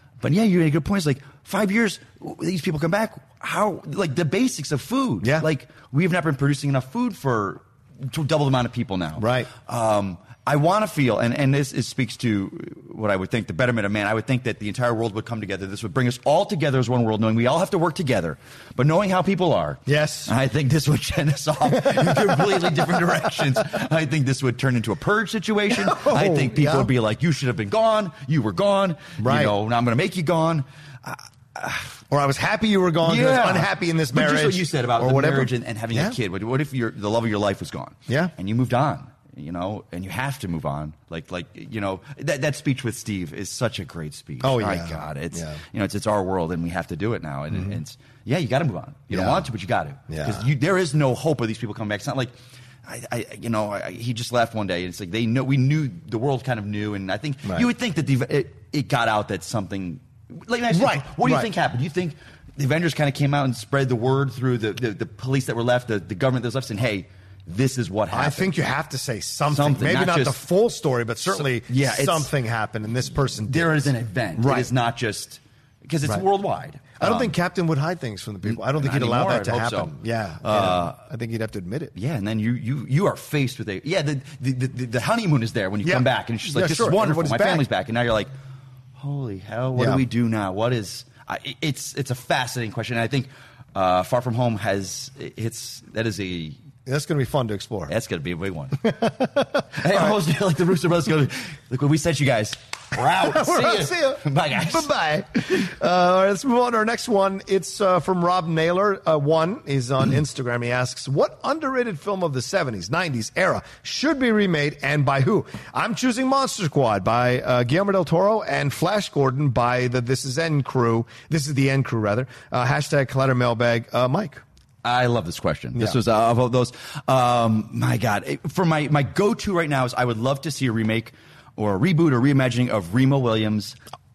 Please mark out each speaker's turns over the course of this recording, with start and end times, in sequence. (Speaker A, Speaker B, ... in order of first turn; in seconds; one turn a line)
Speaker A: 0.2-32.0
Speaker B: 5.2-5.5
Speaker B: 9.2-9.5
Speaker B: 19.9-20.3
Speaker B: 21.6-23.6
Speaker B: 25.8-26.9
Speaker B: 29.2-29.5
Speaker B: 32.1-36.1
Speaker A: 33.0-52.3
Speaker B: 38.1-38.3
Speaker B: 44.4-45.6
Speaker B: 49.1-49.5
Speaker B: 50.1-50.5
Speaker A: 52.8-68.5
Speaker B: 60.7-61.5
Speaker B: 68.1-74.7
Speaker A: 69.5-70.4
Speaker A: 71.3-72.3
Speaker A: 73.4-77.3
Speaker B: 77.0-81.9
Speaker A: 78.4-81.0
Speaker A: 81.9-88.3
Speaker B: 85.8-87.6
Speaker A: 89.0-96.6
Speaker B: 89.7-90.0
Speaker B: 96.8-97.9
Speaker A: 97.9-98.9
Speaker B: 98.8-100.2
Speaker A: 99.7-104.9
Speaker B: 103.1-124.4
Speaker A: 124.8-133.8